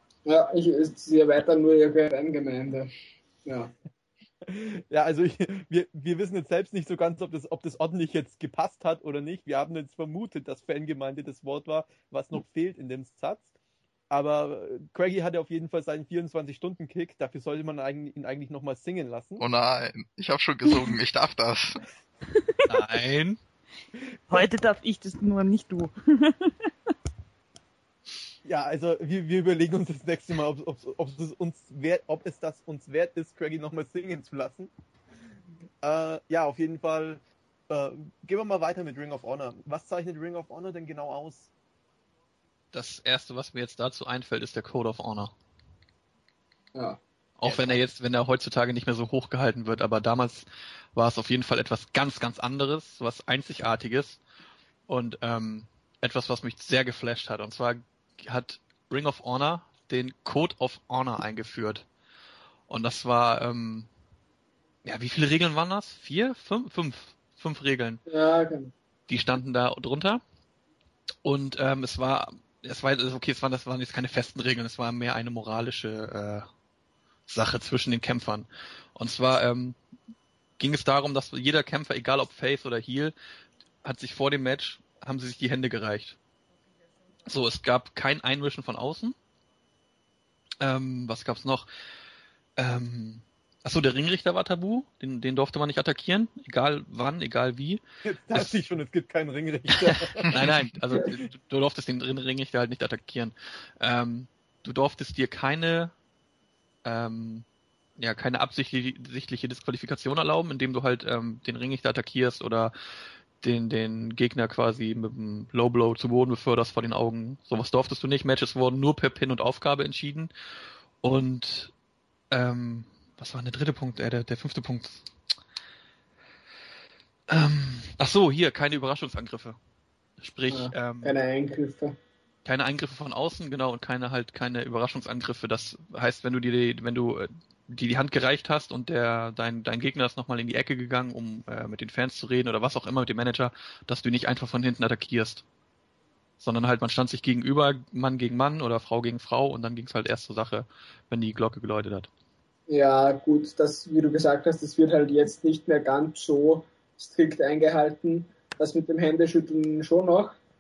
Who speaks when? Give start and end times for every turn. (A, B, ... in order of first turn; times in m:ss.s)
0:00.2-0:02.9 A
0:03.4-0:03.7 A
0:04.4-0:13.5 B
0:14.1-0:19.4 B
0:19.4-0:21.8 C
0:22.4-0:22.8 D
0:22.7-0:23.4 E
0:24.3-0:26.7 D
0:28.4-0:34.7 B
0:35.8-0:41.5 B
0:42.7-0:45.3 E
0:46.7-0:47.8 A
0:47.4-0:54.2 E
0:54.9-1:01.8 E
1:02.7-1:03.9 E
1:04.8-1:08.0 E
1:08.1-1:08.7 A
1:09.1-1:10.2 E
1:11.2-1:16.4 E
1:17.3-1:19.8 E
1:20.6-1:23.1 E
1:23.8-1:26.2 E
1:27.3-1:29.2 E
1:30.6-1:31.7 E
1:32.6-1:37.8 E
1:38.0-1:40.4 B
1:39.8-1:45.9 E
1:46.8-1:47.4 E
1:48.0-1:52.7 E
1:53.4-2:00.3 E
2:01.0-2:01.7 E
2:02.3-2:05.1 E
2:07.3-2:09.6 E
2:10.2-2:11.2 E
2:10.5-2:12.0 A
2:12.4-2:25.4 E
2:26.4-2:32.1 E
2:32.7-2:40.4 A